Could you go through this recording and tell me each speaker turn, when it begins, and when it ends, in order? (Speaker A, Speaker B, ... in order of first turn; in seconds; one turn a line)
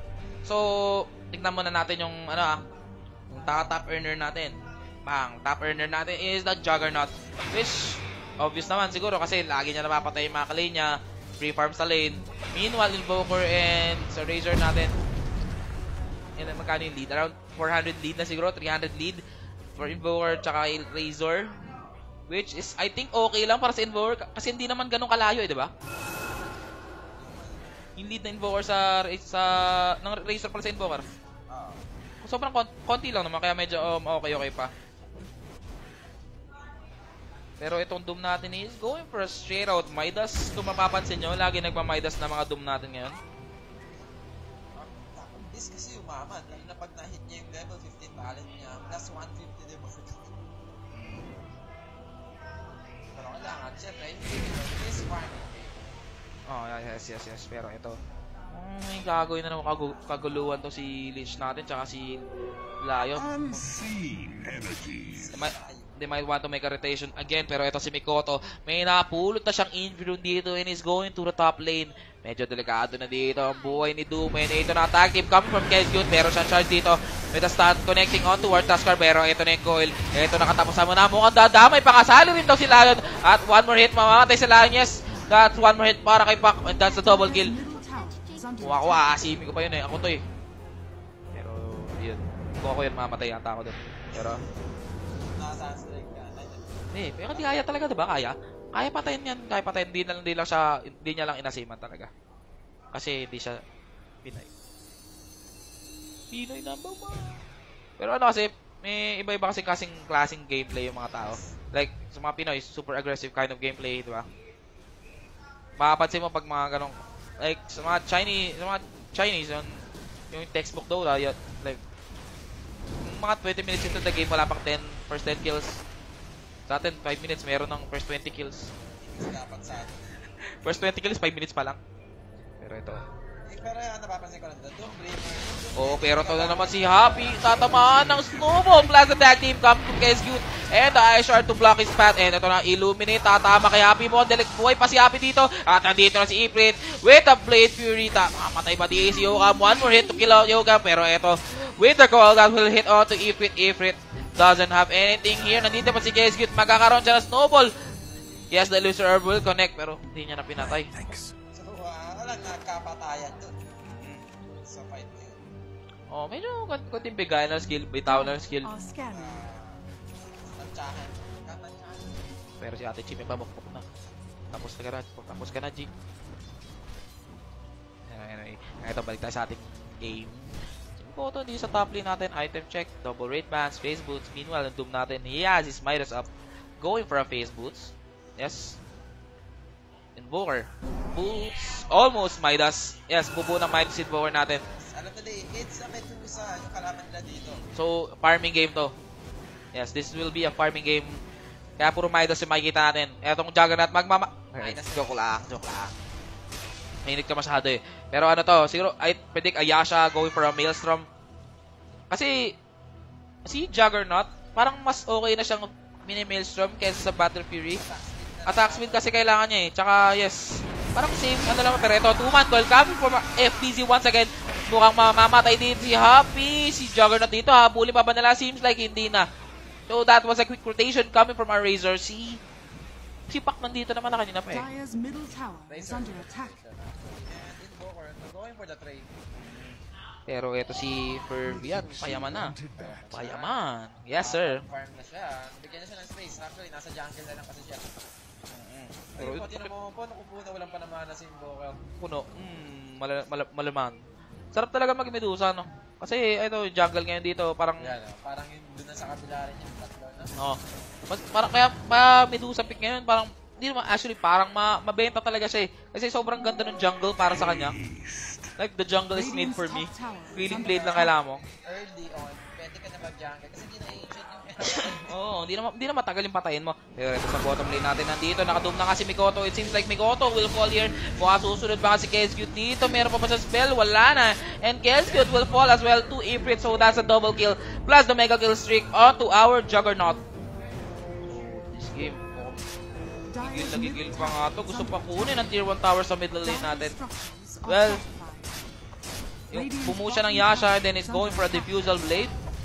Speaker A: 0.4-2.6
Speaker A: 3.3-14.9
Speaker A: 16.4-19.2
Speaker A: 19.8-21.5
Speaker A: 22.3-25.7
Speaker B: 27.2-27.7
Speaker A: 28.0-31.0
Speaker B: 31.5-31.8
Speaker A: 32.2-34.7
Speaker A: 37.6-43.2
Speaker B: 44.7-50.4
Speaker A: 50.9-51.3
Speaker B: 53.1-55.8
Speaker A: 56.5-58.0
Speaker A: 58.5-62.2
Speaker A: 62.8-63.7
Speaker B: 65.0-65.9
Speaker A: 65.3-87.5
Speaker C: 86.8-89.1
Speaker A: 88.6-90.2
Speaker A: 91.3-94.4
Speaker B: 95.1-96.8
Speaker A: 96.9-102.1
Speaker B: 97.3-97.6
Speaker A: 102.9-103.6
Speaker A: 104.2-104.5
Speaker A: 106.3-107.4
Speaker A: 108.0-114.3
Speaker B: 111.1-111.5
Speaker A: 115.8-121.8
Speaker A: 123.0-125.8
Speaker A: 126.7-128.7
Speaker B: 129.0-130.5
Speaker A: 130.4-131.8
Speaker A: 132.6-133.0
Speaker B: 133.4-137.4
Speaker A: 135.8-157.7
Speaker A: 158.5-160.9
Speaker B: 161.5-163.5
Speaker A: 163.9-164.2
Speaker B: 164.4-165.4
Speaker A: 166.1-168.7
Speaker C: 168.1-169.5
Speaker B: 169.1-169.8
Speaker B: 170.5-172.3
Speaker A: 172.6-173.8
Speaker A: 174.5-175.9
Speaker A: 178.1-188.8
Speaker A: 190.2-194.6
Speaker B: 194.6-197.6
Speaker A: 197.8-198.9
Speaker A: 199.7-201.2
Speaker A: 201.8-205.9
Speaker B: 204.6-205.6
Speaker A: 207.1-211.1
Speaker A: 212.1-212.6
Speaker A: 213.4-217.8
Speaker B: 217.7-219.2
Speaker A: 218.4-229.3
Speaker A: 229.9-232.4
Speaker A: 233.3-234.7
Speaker C: 234.5-236.6
Speaker B: 235.7-239.1
Speaker A: 239.3-242.6
Speaker B: 242.6-243.5
Speaker A: 243.1-244.6
Speaker B: 244.2-248.0
Speaker A: 248.5-249.7
Speaker B: 249.1-251.8
Speaker A: 252.0-254.0
Speaker A: 254.5-257.9
Speaker B: 257.8-260.3
Speaker A: 260.4-267.8
Speaker A: 268.6-271.4
Speaker C: 269.1-271.1
Speaker B: 271.6-275.1
Speaker A: 274.8-290.2
Speaker A: 291.2-292.6
Speaker C: 293.3-295.5
Speaker A: 293.4-296.9
Speaker C: 296.4-298.6
Speaker A: 297.6-298.0
Speaker A: 299.5-302.3
Speaker C: 299.5-302.3